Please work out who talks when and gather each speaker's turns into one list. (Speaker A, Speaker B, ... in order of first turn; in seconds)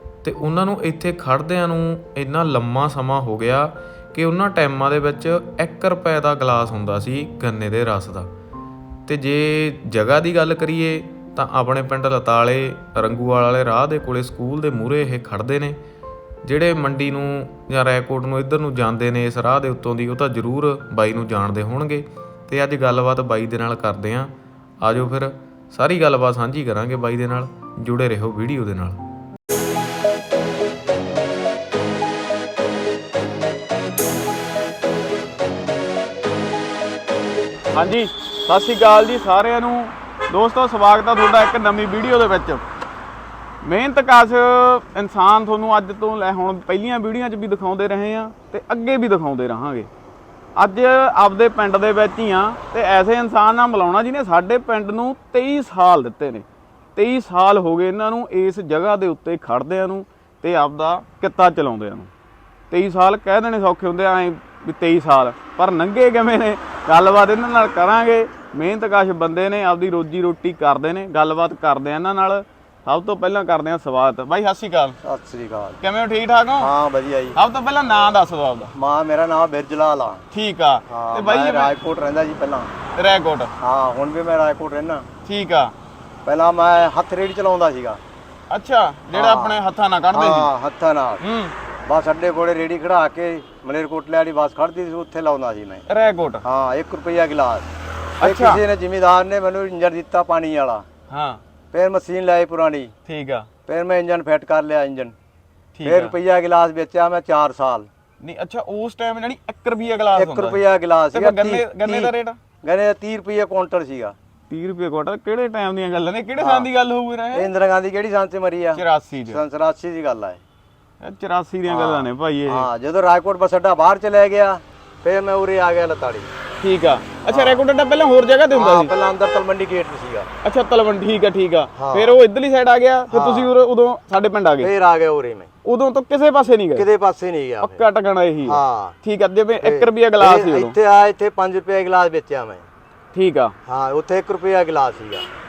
Speaker A: 0.2-8.3, 9.1-15.8, 16.4-29.0
Speaker B: 37.7-42.6, 43.6-49.9, 50.6-56.5, 57.0-62.1, 62.7-75.0, 75.8-76.7, 77.3-78.7, 80.3-81.7, 83.0-83.5, 85.3-85.7, 88.5-90.5, 91.2-91.5, 95.9-96.5, 98.2-98.6, 101.1-101.4, 103.1-103.5, 105.8-106.2, 108.2-112.4, 114.5-117.5, 118.8-119.4, 121.0-122.7, 126.6-128.9, 130.4-134.7, 135.7-136.9, 137.6-140.8, 143.1-143.5
Speaker C: 75.0-75.8, 76.6-77.4, 78.8-80.2, 80.9-82.7, 83.6-85.0, 86.2-88.0, 89.1-89.6, 90.1-91.2, 91.9-95.8, 96.4-97.7, 98.2-100.8, 101.7-102.9, 103.7-105.2, 105.8-107.9, 110.1-114.2, 116.4-116.7, 117.3-120.4, 121.7-126.3, 127.3-127.7, 128.5-130.3, 131.8-132.2, 133.1-133.5, 134.6-135.5, 136.8-137.8, 138.4-139.0, 139.6-142.7, 143.7-145.3